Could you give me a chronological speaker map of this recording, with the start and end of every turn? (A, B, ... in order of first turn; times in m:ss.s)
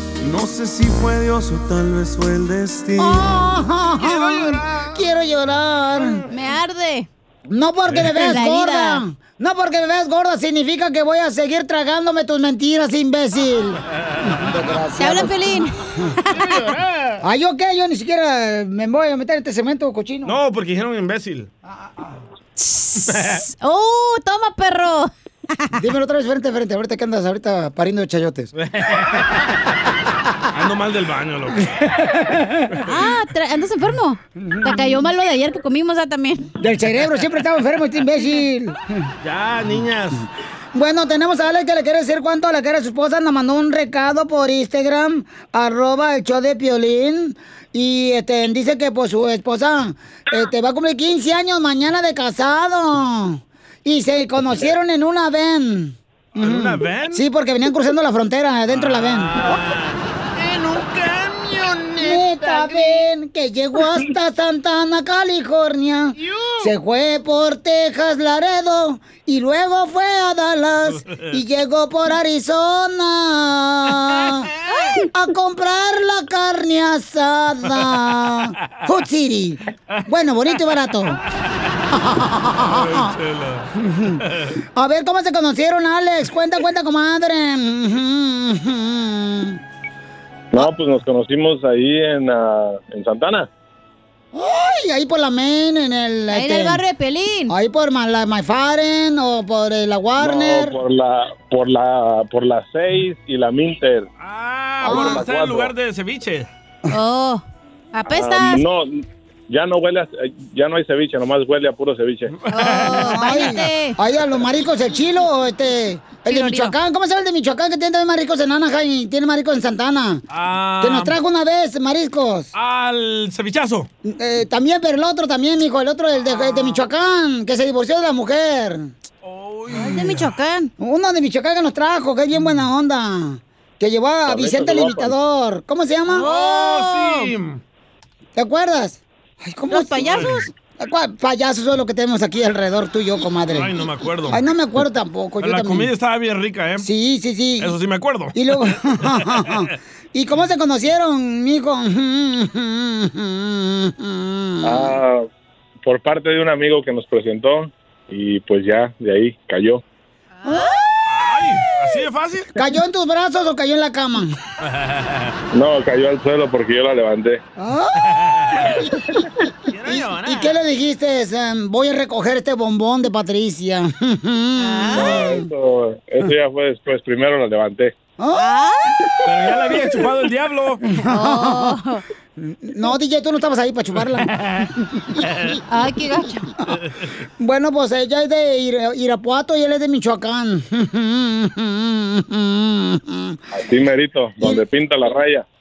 0:00.2-0:03.4 A
0:03.0-0:06.2 B
0:04.0-0:04.9 C
0:06.3-0:07.1 D
0:07.5-0:13.8 B
0:08.1-0:09.0 D
0:14.4-0:15.4 B
0:15.0-0:16.4 D
0:16.3-0:17.2 C
0:17.2-0:20.4 B
0:20.3-0:21.5 C
0:22.6-0:25.1 D
0:23.1-0:23.4 C
0:25.8-0:28.5 B
0:28.6-0:29.3 C
0:30.5-0:31.7 C
0:32.0-0:32.6 B
0:32.8-0:36.5 D
0:36.6-0:38.8 B
0:39.2-0:40.3 C
0:40.7-0:59.4 B
0:56.4-0:57.2 C
0:58.7-1:03.1 C
1:02.0-1:14.5 B
1:06.2-1:06.7 C
1:15.1-1:21.2 B
1:21.9-1:23.1 B
1:22.6-1:23.7 C
1:23.8-1:24.2 B
1:24.8-1:29.6 B
1:30.5-1:33.5 E
1:34.3-1:36.8 B
1:36.3-1:37.5 D
1:37.5-1:40.8 B
1:40.2-1:44.1 E
1:44.2-1:46.5 C
1:44.8-1:45.7 E
1:44.9-1:45.2 B
1:46.9-1:47.4 D
1:47.9-1:48.6 D
1:48.1-1:52.3 E
1:52.4-1:53.1 C
1:52.5-1:54.0 D
1:53.1-2:00.2 B
1:56.2-1:56.7 D
2:00.3-2:01.2 C
2:00.8-2:02.5 B
2:02.6-2:03.9 C
2:04.0-2:08.9 B
2:09.2-2:10.3 C
2:09.7-2:10.7 D
2:10.8-2:16.3 B
2:14.3-2:15.2 E
2:16.1-2:17.3 D
2:16.2-2:17.6 C
2:18.4-2:23.8 B
2:19.7-2:20.5 D
2:23.5-2:24.4 C
2:24.3-2:25.9 B
2:25.4-2:26.9 C
2:26.8-2:27.7 B
2:27.6-2:28.4 C
2:28.4-2:35.0 B
2:29.0-2:29.6 C
2:34.6-2:35.3 E
2:35.8-2:39.8 E
2:40.4-2:40.8 B
2:41.1-2:42.5 C
2:42.6-2:44.4 B
2:44.6-2:45.3 C
2:45.5-2:47.4 E
2:47.6-2:48.0 B
2:48.0-2:48.8 C
2:48.7-2:49.1 B
2:49.7-2:50.6 C
2:49.9-2:55.5 B
2:54.6-2:55.3 D
2:54.9-2:57.9 E
2:58.2-2:58.4 B
2:58.4-2:59.0 D
2:59.3-3:00.8 C
3:01.0-3:02.0 D
3:01.1-3:01.8 B
3:02.6-3:05.6 B
3:05.7-3:06.5 D
3:07.4-3:13.4 B
3:13.5-3:15.4 E